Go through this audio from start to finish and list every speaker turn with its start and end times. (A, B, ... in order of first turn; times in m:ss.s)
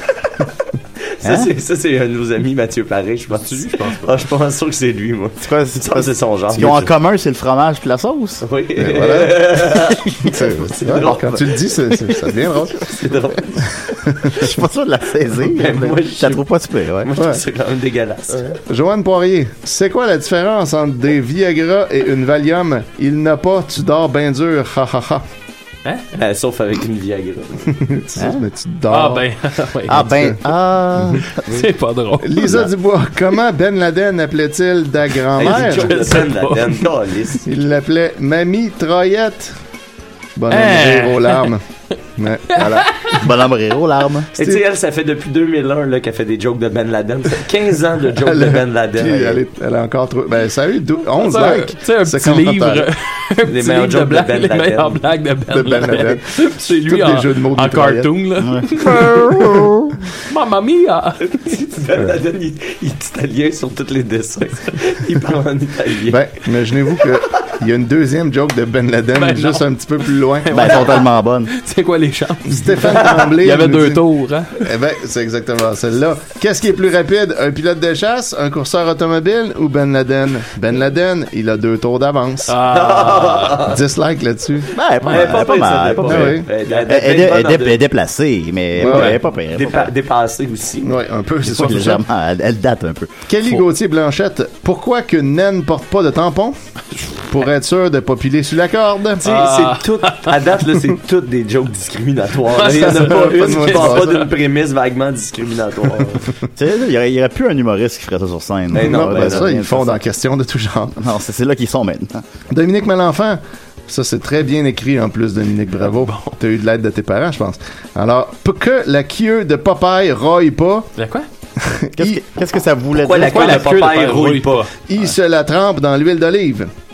0:01.2-0:06.9 A
0:01.2-0:01.5 B
0:03.3-0:04.1 C
0:05.4-0:08.4 B
0:08.4-0:11.8 A
0:08.8-0:09.7 D
0:10.2-0:13.0 D
0:12.7-0:13.9 A
0:14.1-0:14.5 D
0:14.3-0:17.1 B
0:15.4-0:16.4 A
0:17.0-0:18.6 A
0:18.7-0:25.2 D
0:26.1-0:27.8 A
0:27.7-0:29.2 D
0:28.2-0:28.4 B
0:28.9-0:30.4 C
0:29.8-0:31.7 B
0:31.0-0:31.2 D
0:31.2-0:32.6 C
0:32.2-0:36.1 D
0:32.4-0:32.7 B
0:35.3-0:37.4 A
0:35.4-0:36.9 C
0:37.4-0:39.5 D
0:40.4-0:41.6 D
0:40.5-0:41.5 C
0:42.2-0:43.0 D
0:42.5-0:43.3 C
0:42.6-0:44.3 B
0:44.3-0:49.4 A
0:48.2-0:52.9 D
0:51.2-0:59.6 C
0:53.4-0:55.0 A
0:55.5-0:58.1 D
0:58.4-1:00.0 B
1:00.2-1:01.4 C
1:01.3-1:06.2 A
1:06.1-1:10.9 D
1:09.1-1:14.6 C
1:10.5-1:11.5 B
1:12.5-1:14.0 D
1:14.6-1:22.5 D
1:22.5-1:23.7 C
1:22.7-1:23.8 A
1:23.6-1:25.3 D
1:24.7-1:29.9 B
1:25.0-1:27.8 A
1:26.0-1:26.5 D
1:28.8-1:29.2 D
1:28.8-1:29.2 C
1:29.5-1:31.0 A
1:30.8-1:32.0 D
1:31.4-1:33.2 B
1:33.3-1:36.6 D
1:37.1-1:39.2 D
1:39.2-1:46.2 A
1:39.2-1:40.3 C
1:42.5-1:44.3 C
1:42.6-1:44.2 D
1:46.6-1:50.0 B
1:48.7-1:49.5 A
1:48.8-1:51.0 D
1:51.0-1:52.2 B
1:52.5-2:00.9 D
1:56.0-1:56.3 C
2:01.0-2:01.2 C
2:01.6-2:02.2 D
2:02.0-2:03.7 B
2:02.9-2:04.7 A
2:03.1-2:04.7 C
2:04.9-2:06.7 D